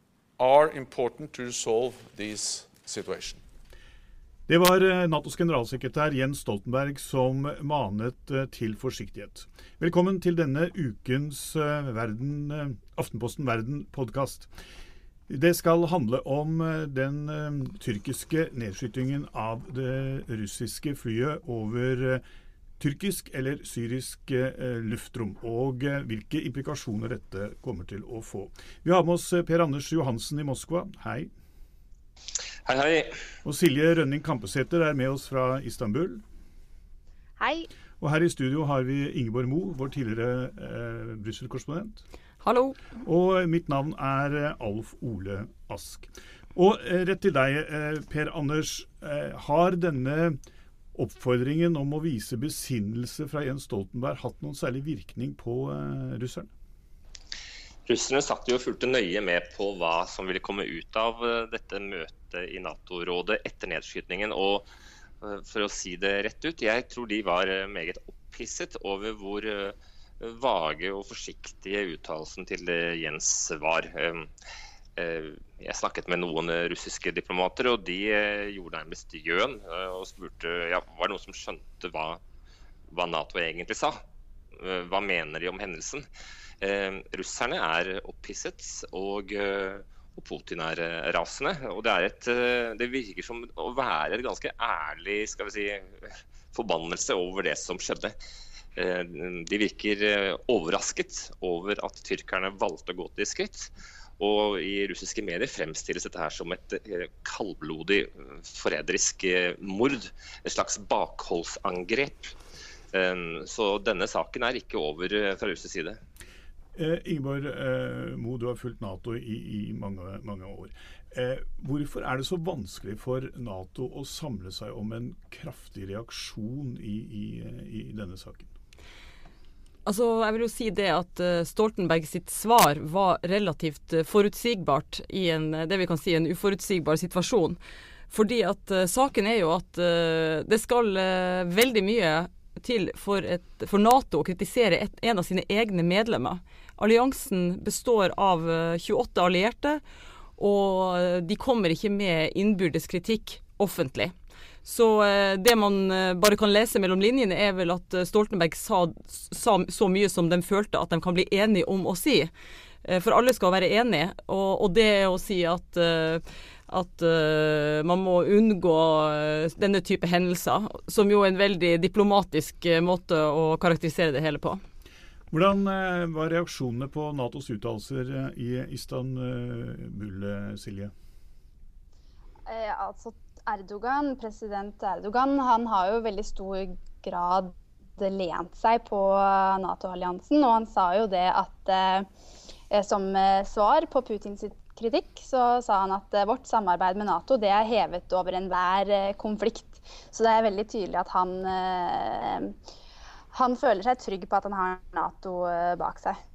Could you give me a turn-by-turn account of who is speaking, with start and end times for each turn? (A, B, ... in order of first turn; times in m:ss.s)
0:00.4-0:03.4 A
0:04.5-0:14.5 B
0:15.3-0:22.2 B
0:22.8-0:31.3 B
0:32.6-0:33.2 C
0:33.4-0:36.2 B
0:37.4-0:37.7 D
0:38.0-0:42.0 B
0:42.4-0:42.8 E
0:43.0-0:50.4 B
0:50.9-0:56.5 B
0:57.9-1:04.7 C
1:05.2-1:14.3 C
1:15.0-1:22.2 C
1:22.9-1:24.0 C
1:24.5-1:26.1 C
1:26.6-1:38.2 C
1:38.8-1:52.4 C
1:52.9-1:56.0 C
1:56.7-2:08.5 B
2:09.8-2:17.6 E
2:18.1-2:29.8 E
2:30.4-2:34.1 E
2:34.6-2:42.3 E
2:42.8-2:54.6 E
2:55.3-3:00.9 B
3:02.5-3:12.1 D
3:12.7-3:22.5 D
3:23.3-3:26.2 D